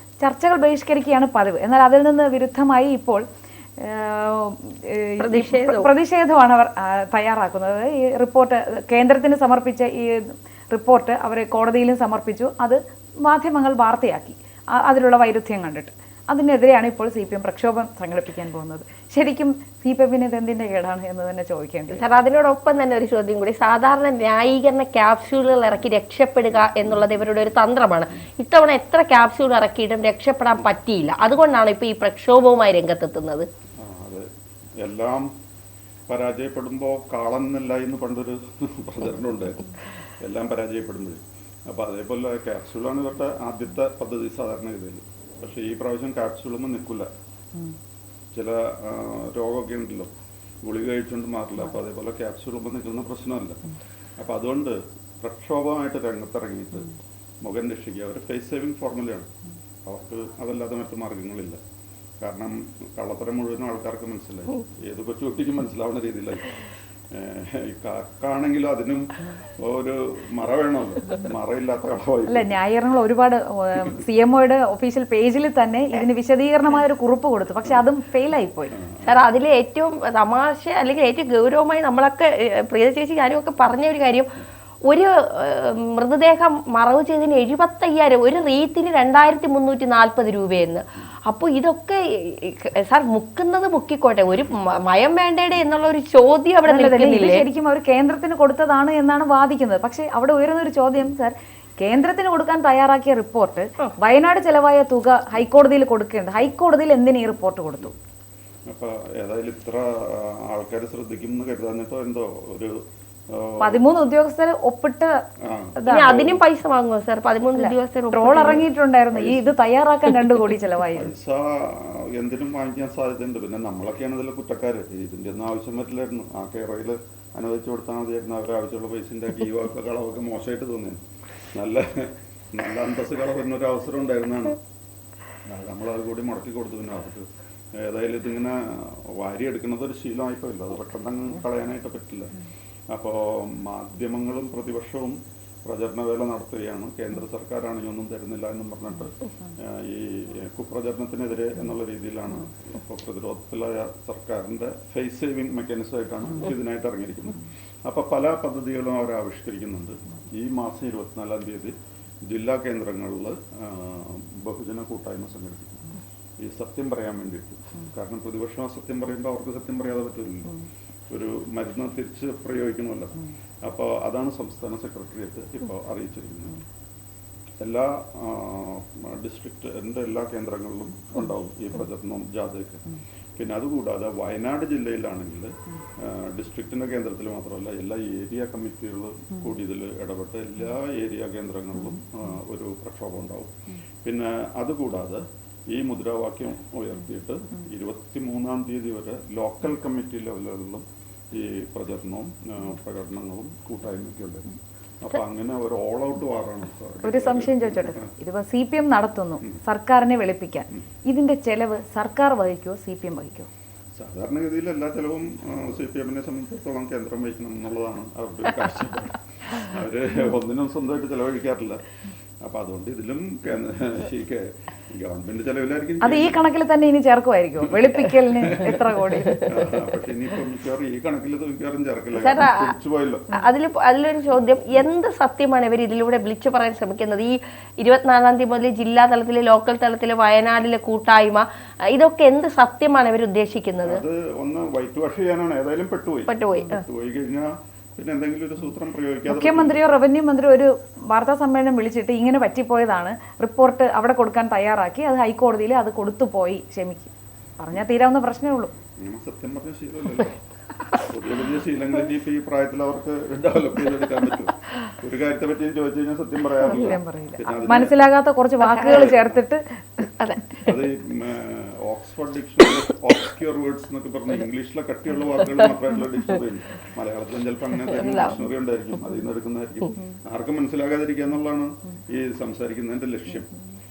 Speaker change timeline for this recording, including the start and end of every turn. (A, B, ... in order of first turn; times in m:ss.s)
0:00.2-0:03.2 A
0:03.8-0:22.0 A
0:05.2-0:05.9 B
0:21.9-0:33.5 B
0:33.8-0:34.3 C
0:34.8-0:35.3 C
0:36.1-0:47.1 C
0:48.3-0:50.1 C
0:50.6-0:53.6 C
0:54.2-0:56.9 C
0:57.4-0:59.3 C
0:59.8-1:01.6 C
1:02.2-1:06.6 C
1:07.1-1:12.5 C
1:12.3-1:18.8 A
1:18.8-1:19.2 C
1:19.0-1:24.3 B
1:24.9-1:37.5 B
1:36.7-1:48.0 A
1:48.7-1:53.9 C
1:53.6-1:55.1 A
1:55.4-1:56.4 C
1:55.8-1:56.3 A
1:55.9-1:58.7 B
1:57.6-2:01.1 A
1:59.1-1:59.5 C
2:01.0-2:11.0 C
2:11.5-2:14.6 C
2:15.4-2:22.3 C
2:22.9-2:41.8 C
2:42.3-2:50.6 C
2:51.1-2:56.6 C
2:57.6-3:02.8 C
3:03.4-3:13.5 C
3:14.0-3:24.5 C
3:25.0-3:28.1 C
3:27.0-3:33.5 A
3:34.0-3:41.8 C
3:42.4-3:46.5 C
3:46.0-3:49.6 A
3:47.7-3:48.8 C
3:49.4-3:53.3 C
3:52.2-3:52.7 B
3:53.3-4:04.0 B
4:03.8-4:09.8 C
4:06.3-4:06.8 B
4:09.3-4:18.7 A
4:19.0-4:20.4 C
4:21.0-4:28.0 C
4:26.7-4:30.1 A
4:28.6-4:29.1 B
4:28.9-4:29.4 C
4:30.2-4:30.6 B
4:30.6-4:43.5 C
4:37.8-4:38.4 B